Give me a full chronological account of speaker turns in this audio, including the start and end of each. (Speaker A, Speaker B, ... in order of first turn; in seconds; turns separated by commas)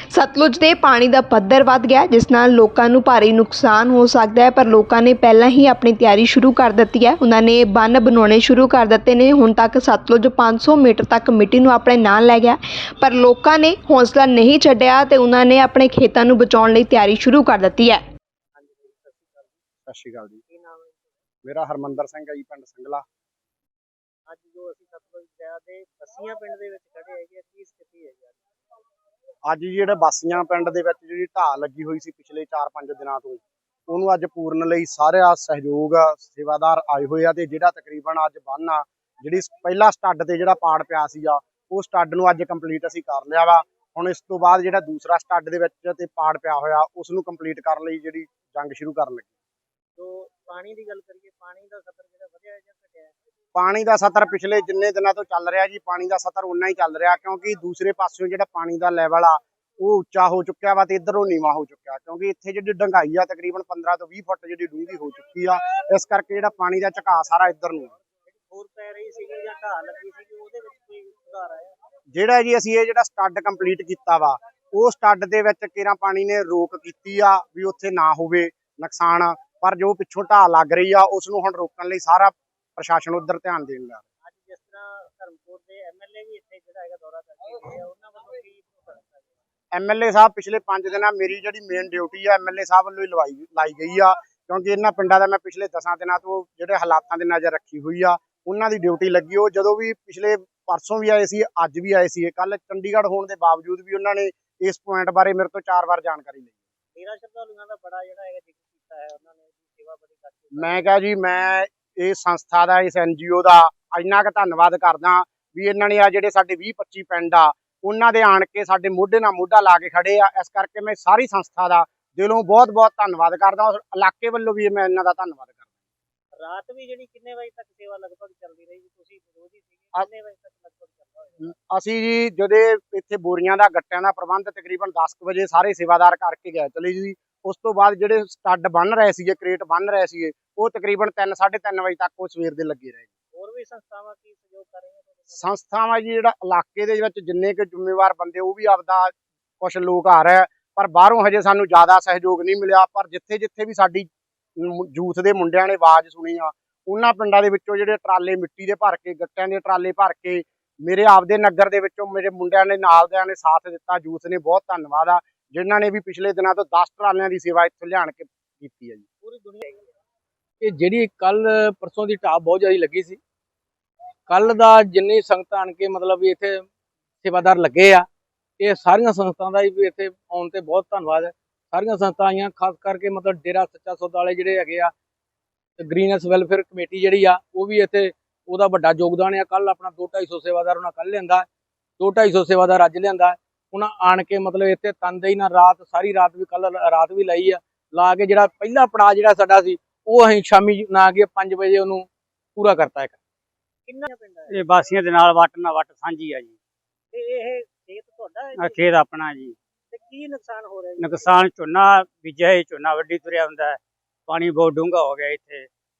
Speaker A: 0.1-18.0, Speaker B: 18.5-19.6, Speaker C: 19.9-20.4, Speaker B: 20.5-21.2, Speaker C: 21.4-23.0, Speaker B: 24.3-28.4, Speaker C: 29.4-49.3, Speaker B: 50.0-53.1, Speaker C: 53.5-67.9, Speaker B: 68.4-71.8, Speaker C: 72.1-84.0, Speaker B: 84.2-89.4, Speaker C: 89.7-106.5, Speaker B: 107.0-111.0, Speaker C: 110.5-125.6, Speaker B: 126.3-131.5, Speaker C: 131.4-143.1, Speaker B: 143.3-145.6, Speaker C: 145.4-169.0, Speaker B: 169.2-170.0, Speaker D: 170.6-173.2, Speaker D: 174.3-176.7, Speaker D: 177.2-178.1, Speaker D: 178.6-184.9, Speaker D: 185.8-191.4, Speaker D: 192.0-203.2, Speaker B: 203.9-204.6, Speaker E: 204.5-206.6, Speaker B: 207.1-208.9, Speaker E: 208.6-209.6, Speaker B: 209.9-211.3, Speaker E: 211.0-215.7